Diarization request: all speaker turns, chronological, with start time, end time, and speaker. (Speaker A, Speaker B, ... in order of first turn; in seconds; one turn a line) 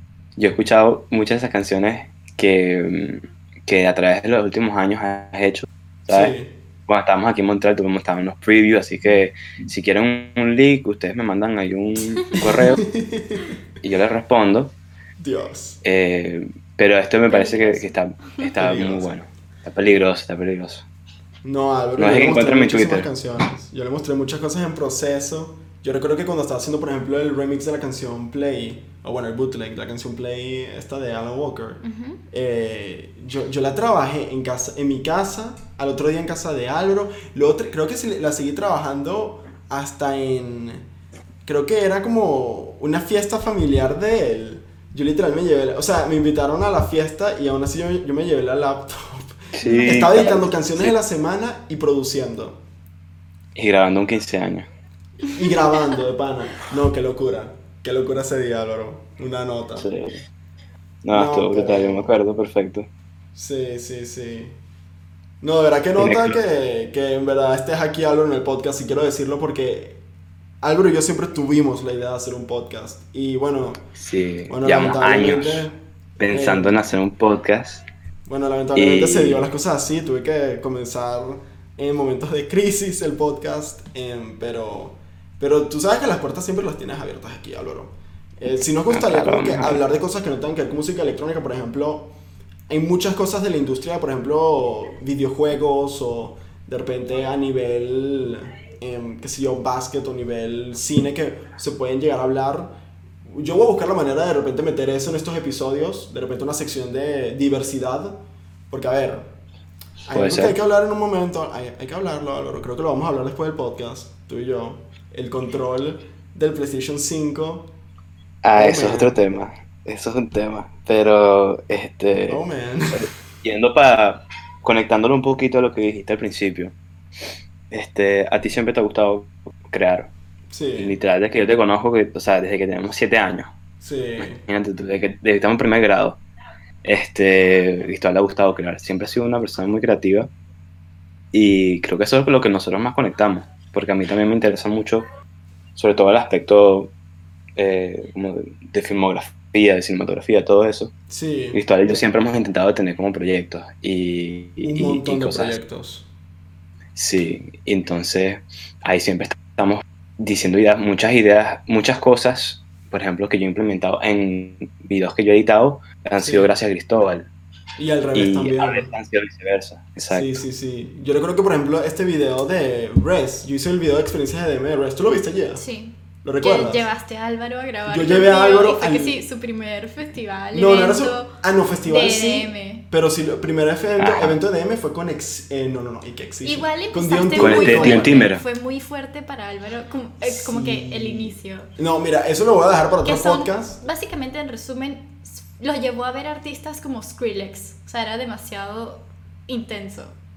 Speaker A: 0.4-6.3
Speaker B: 6.1-6.5
Speaker A: 6.9-12.9
Speaker B: 12.8-13.5
Speaker A: 13.8-14.8
Speaker B: 15.2-15.8
Speaker A: 15.8-20.9
Speaker C: 17.3-18.4
Speaker B: 18.6-19.1
Speaker B: 21.4-40.9
Speaker A: 22.0-23.1
Speaker C: 31.8-32.2
Speaker B: 41.5-52.6
Speaker A: 49.5-51.0
Speaker C: 49.6-50.1
Speaker A: 53.5-54.7
Speaker B: 55.2-59.9
Speaker A: 59.8-60.2
Speaker A: 61.0-62.9
Speaker B: 61.1-62.1
Speaker B: 63.4-64.6
Speaker B: 65.4-70.0
Speaker A: 66.0-66.4
Speaker B: 70.6-73.8
Speaker A: 74.0-77.8
Speaker B: 74.5-75.8
Speaker B: 76.3-76.8
Speaker B: 78.3-92.1
Speaker A: 78.8-79.5
Speaker A: 88.9-89.8
Speaker B: 92.7-102.7
Speaker B: 103.3-109.3
Speaker B: 110.1-117.7
Speaker A: 110.1-110.6
Speaker A: 118.4-122.4
Speaker B: 118.6-119.2
Speaker B: 122.3-123.1
Speaker A: 122.9-126.7
Speaker A: 127.7-130.1
Speaker B: 130.5-131.0
Speaker A: 130.8-133.5
Speaker B: 133.8-134.4
Speaker A: 134.2-136.2
Speaker A: 136.8-140.3
Speaker A: 141.3-145.1
Speaker A: 145.8-146.9
Speaker A: 147.6-150.9
Speaker B: 151.1-151.6
Speaker A: 151.5-155.6
Speaker B: 154.6-156.1
Speaker A: 157.0-167.3
Speaker B: 166.2-166.5
Speaker B: 167.8-168.9
Speaker A: 168.1-170.4
Speaker B: 170.1-175.6
Speaker C: 175.6-182.8
Speaker B: 176.2-176.9
Speaker B: 177.9-179.2
Speaker B: 180.5-188.3
Speaker A: 184.0-184.4
Speaker C: 186.4-191.7
Speaker A: 187.4-188.4
Speaker B: 190.2-193.8
Speaker C: 193.1-200.1